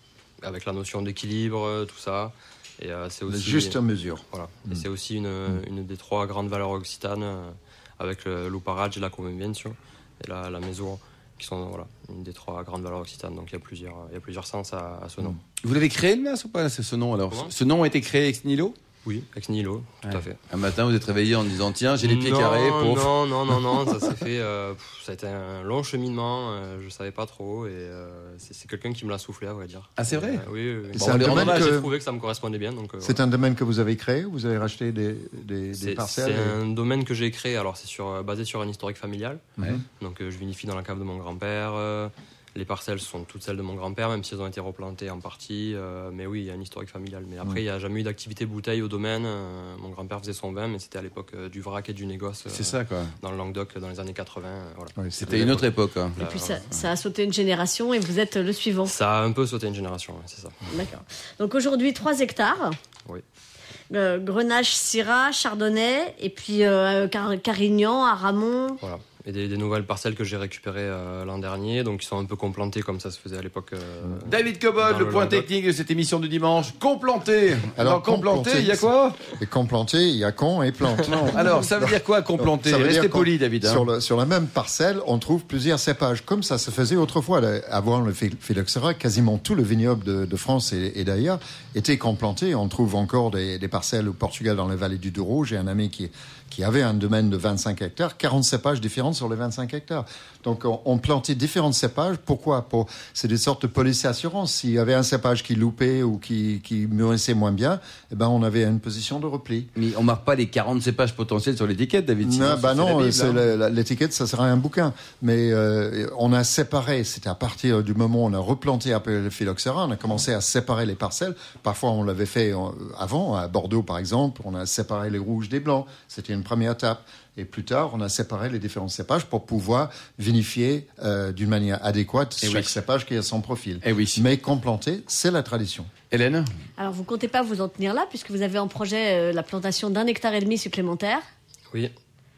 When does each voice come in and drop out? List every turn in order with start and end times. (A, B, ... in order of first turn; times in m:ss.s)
0:00.4-0:03.8 A
0:03.3-0:04.8 B
0:04.3-0:15.4 A
0:15.6-0:18.8 C
0:19.0-0:20.4 A
0:20.0-0:23.2 C
0:22.0-0:33.2 A
0:30.0-0:31.8 C
0:30.9-0:31.9 B
0:33.0-0:36.6 B
0:35.7-0:56.7 A
0:52.5-0:53.1 C
0:55.0-0:55.5 B
0:55.2-0:56.2 C
0:56.2-0:58.9 D
0:58.9-1:00.6 A
1:00.7-1:02.8 D
1:03.9-1:08.8 D
1:08.8-1:15.5 A
1:14.3-1:19.2 C
1:17.8-1:49.7 B
1:21.2-1:23.8 C
1:49.8-1:53.4 C
1:52.2-2:15.9 B
2:12.4-2:12.7 C
2:13.8-2:14.2 C
2:16.1-2:16.5 C
2:16.8-2:21.2 D